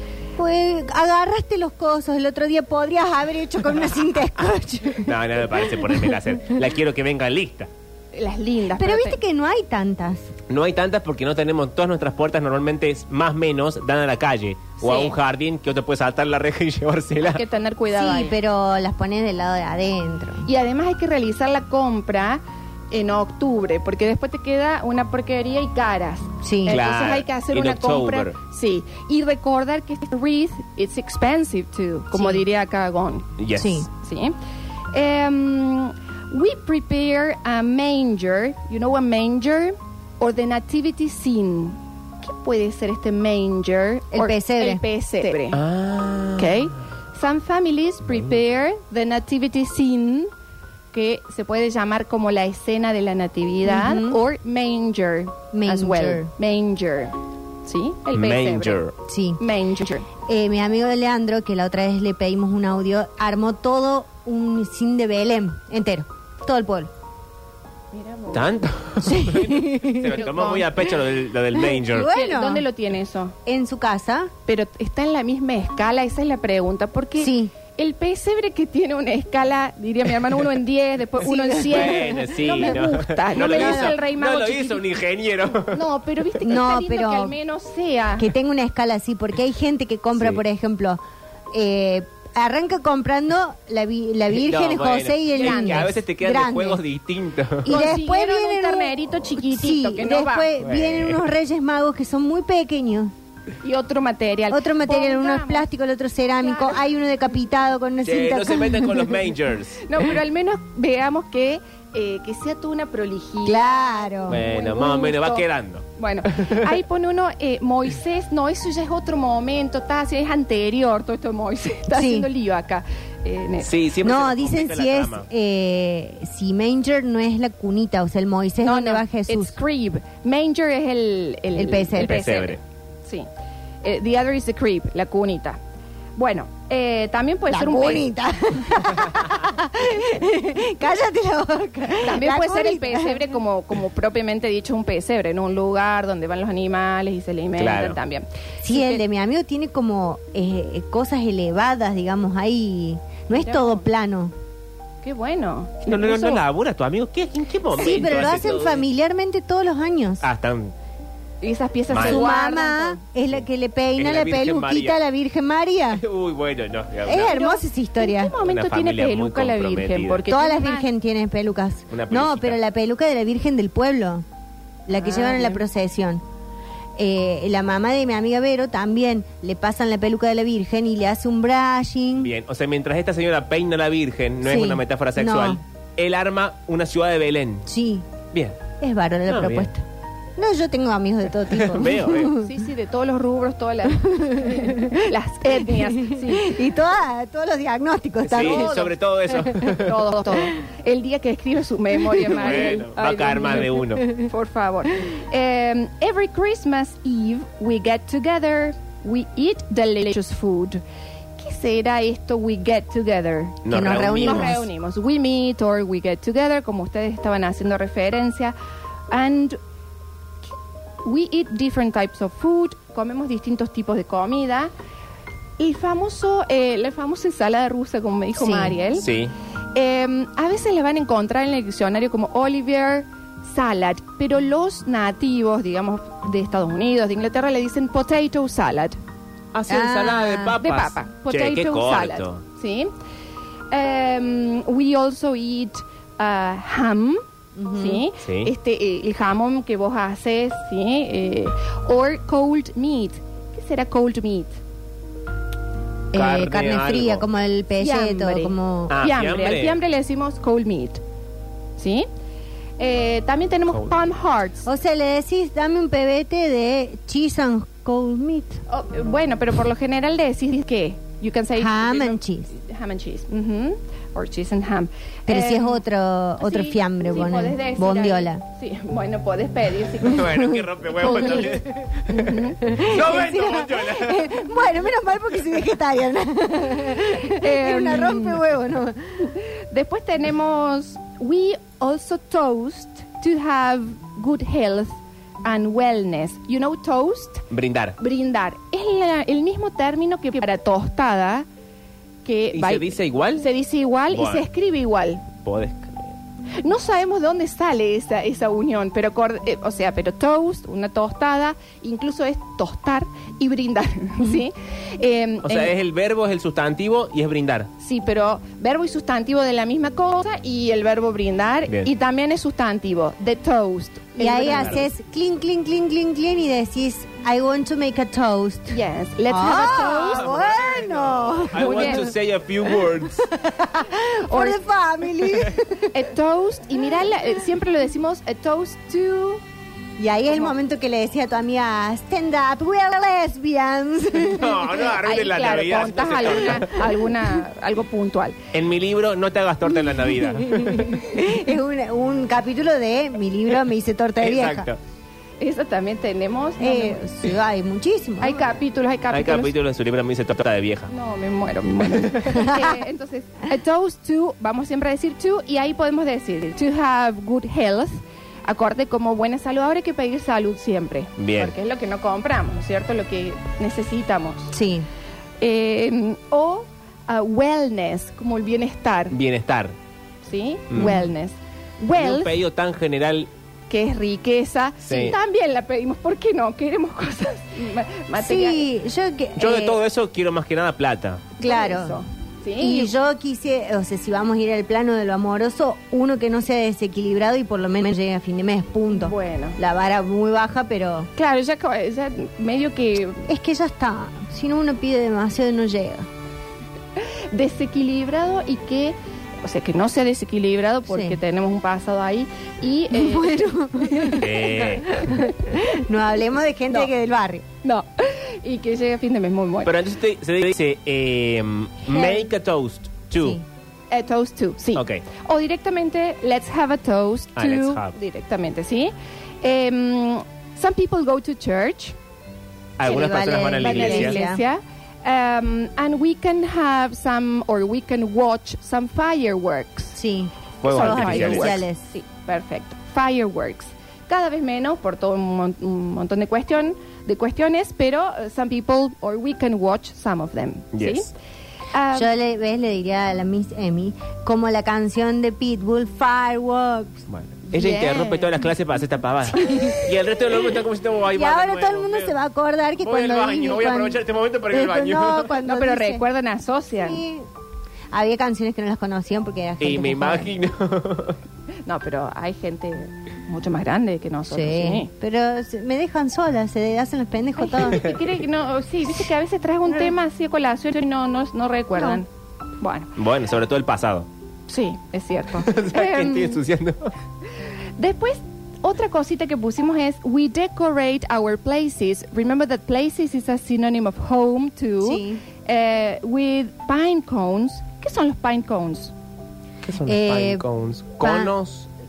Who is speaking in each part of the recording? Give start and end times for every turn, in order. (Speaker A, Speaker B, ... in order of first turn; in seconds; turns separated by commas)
Speaker A: 0.4-6.1, Speaker B: 5.0-7.7, Speaker C: 8.1-9.2, Speaker A: 8.8-10.3, Speaker B: 10.5-17.4, Speaker C: 14.8-15.2, Speaker C: 17.3-18.4, Speaker A: 17.9-20.5, Speaker C: 20.5-33.3, Speaker A: 26.4-26.8, Speaker B: 26.7-28.4, Speaker A: 32.1-32.4, Speaker B: 33.4-33.9, Speaker A: 33.6-33.9, Speaker C: 33.9-34.4, Speaker C: 34.9-45.6, Speaker A: 44.1-45.4, Speaker B: 45.5-46.7, Speaker C: 46.4-50.3, Speaker B: 48.1-48.4, Speaker C: 50.9-58.8, Speaker A: 53.6-54.2, Speaker A: 55.5-56.3, Speaker B: 58.1-58.9, Speaker A: 59.1-59.4, Speaker C: 59.4-60.1, Speaker A: 60.3-66.9, Speaker C: 67.9-68.5, Speaker B: 68.3-72.1, Speaker A: 69.0-70.2, Speaker C: 70.2-70.7, Speaker A: 71.6-72.7, Speaker C: 72.1-73.4, Speaker A: 73.5-74.3, Speaker C: 74.5-84.8, Speaker A: 77.2-77.5, Speaker A: 81.2-82.8, Speaker B: 81.7-85.8, Speaker A: 83.3-84.0, Speaker C: 85.7-88.3, Speaker A: 86.4-87.4, Speaker A: 88.2-91.0, Speaker B: 90.2-90.4, Speaker A: 91.5-96.8, Speaker B: 94.3-97.7, Speaker C: 95.3-96.0, Speaker A: 97.7-103.1, Speaker C: 97.7-100.5, Speaker B: 100.6-101.2, Speaker C: 103.6-105.7, Speaker A: 104.5-109.1, Speaker C: 106.4-106.8, Speaker B: 108.0-109.8, Speaker C: 109.8-115.5, Speaker A: 113.5-114.4, Speaker B: 114.3-116.7, Speaker C: 116.0-123.8, Speaker A: 121.9-122.3, Speaker B: 123.6-125.3, Speaker A: 124.0-129.6, Speaker C: 128.6-133.3, Speaker A: 131.6-132.2, Speaker B: 132.0-132.6, Speaker C: 133.8-135.6, Speaker C: 136.2-138.1, Speaker A: 137.5-143.2, Speaker C: 142.0-149.0, Speaker B: 147.6-148.0, Speaker A: 148.6-154.3, Speaker C: 153.3-153.9, Speaker C: 155.0-156.4, Speaker B: 155.8-158.8, Speaker A: 157.8-160.2, Speaker B: 160.2-160.7, Speaker C: 161.4-163.0, Speaker B: 161.9-162.3, Speaker A: 162.0-166.0, Speaker B: 164.0-165.0, Speaker B: 165.9-167.3, Speaker A: 167.1-168.3, Speaker C: 167.1-170.9, Speaker B: 168.4-170.2, Speaker A: 170.3-174.2, Speaker B: 171.9-172.6, Speaker A: 174.9-176.2, Speaker C: 174.9-175.6, Speaker A: 177.0-182.3, Speaker B: 182.2-187.7, Speaker A: 184.4-185.6, Speaker A: 187.7-188.1, Speaker B: 188.3-188.6, Speaker A: 188.8-189.8, Speaker B: 189.3-189.7, Speaker A: 190.4-192.6, Speaker B: 191.5-192.3, Speaker C: 192.3-196.6, Speaker A: 194.1-198.8, Speaker B: 198.2-200.0, Speaker C: 198.3-210.8, Speaker B: 202.3-204.1, Speaker C: 211.4-218.6, Speaker B: 213.7-214.6, Speaker A: 213.7-214.6, Speaker C: 219.1-219.6, Speaker C: 221.0-224.7, Speaker C: 225.6-229.1, Speaker A: 228.4-228.8, Speaker B: 228.9-229.3, Speaker C: 229.8-239.0, Speaker B: 239.5-242.4, Speaker A: 239.7-240.6, Speaker C: 240.6-242.9, Speaker C: 243.7-247.2, Speaker A: 247.6-248.1, Speaker C: 247.7-254.6, Speaker B: 248.2-248.5, Speaker B: 256.1-257.3, Speaker A: 256.1-258.9, Speaker C: 257.8-261.0, Speaker B: 258.9-259.8, Speaker C: 261.8-262.1, Speaker C: 262.8-264.7, Speaker A: 264.6-268.6, Speaker C: 268.7-275.8, Speaker A: 271.6-272.5, Speaker A: 275.3-278.4, Speaker C: 276.4-280.3, Speaker B: 280.0-284.4, Speaker A: 280.1-281.6, Speaker C: 281.0-282.6, Speaker A: 282.6-289.3, Speaker C: 287.2-288.5, Speaker C: 289.3-294.9, Speaker C: 295.4-297.4, Speaker B: 297.5-298.0, Speaker C: 298.0-301.5, Speaker C: 302.2-305.3, Speaker B: 302.5-303.5, Speaker B: 304.1-304.5, Speaker B: 305.4-306.1, Speaker C: 306.6-315.7, Speaker B: 315.4-317.7, Speaker C: 317.8-324.9, Speaker A: 324.2-332.1, Speaker B: 324.5-324.8, Speaker C: 328.7-330.6, Speaker B: 329.7-333.3, Speaker C: 331.6-332.1, Speaker A: 333.2-336.0, Speaker C: 334.3-334.6, Speaker C: 335.9-339.4, Speaker A: 340.0-344.7, Speaker B: 344.3-346.8, Speaker C: 345.0-348.4, Speaker B: 348.5-351.2, Speaker A: 349.9-354.7, Speaker B: 354.2-354.8, Speaker C: 355.4-357.1, Speaker A: 356.6-358.4, Speaker C: 358.2-359.5, Speaker B: 359.1-360.9, Speaker C: 360.9-374.5, Speaker A: 362.3-362.8, Speaker B: 371.2-371.5, Speaker A: 374.5-374.9, Speaker C: 375.4-379.1, Speaker B: 379.1-379.8, Speaker C: 380.2-382.4, Speaker B: 380.7-381.0, Speaker B: 381.9-383.3, Speaker C: 383.7-388.7, Speaker B: 384.8-385.2, Speaker A: 388.2-389.8, Speaker B: 389.4-391.3, Speaker A: 391.4-392.0, Speaker C: 391.4-392.9, Speaker A: 392.6-401.1, Speaker C: 398.9-399.6, Speaker C: 401.2-403.3, Speaker A: 403.3-406.1, Speaker C: 407.3-414.2, Speaker A: 410.9-411.2, Speaker A: 412.9-417.4, Speaker B: 414.2-415.0, Speaker C: 417.6-419.7, Speaker B: 419.6-423.4, Speaker A: 423.2-423.4, Speaker C: 423.9-431.9, Speaker B: 424.8-425.0, Speaker B: 427.4-428.0, Speaker B: 432.8-434.2, Speaker A: 432.8-434.4, Speaker C: 433.6-440.0, Speaker A: 439.9-441.8, Speaker B: 440.6-441.6, Speaker C: 440.6-451.1, Speaker B: 450.7-451.1, Speaker C: 451.7-452.1, Speaker A: 451.9-457.0, Speaker B: 457.1-462.1, Speaker C: 457.5-458.5, Speaker A: 459.3-459.9, Speaker A: 461.1-466.1, Speaker B: 462.8-465.3, Speaker C: 465.4-467.0, Speaker A: 466.8-467.3, Speaker A: 467.9-470.3, Speaker B: 469.6-471.2, Speaker C: 471.7-474.9, Speaker A: 474.3-477.9, Speaker C: 477.4-482.1, Speaker C: 482.6-482.9, Speaker B: 483.0-484.1, Speaker C: 484.5-486.4, Speaker B: 485.4-486.9, Speaker C: 487.8-498.9, Speaker A: 494.8-495.2, Speaker B: 499.6-501.7, Speaker A: 499.9-500.4, Speaker A: 501.0-501.3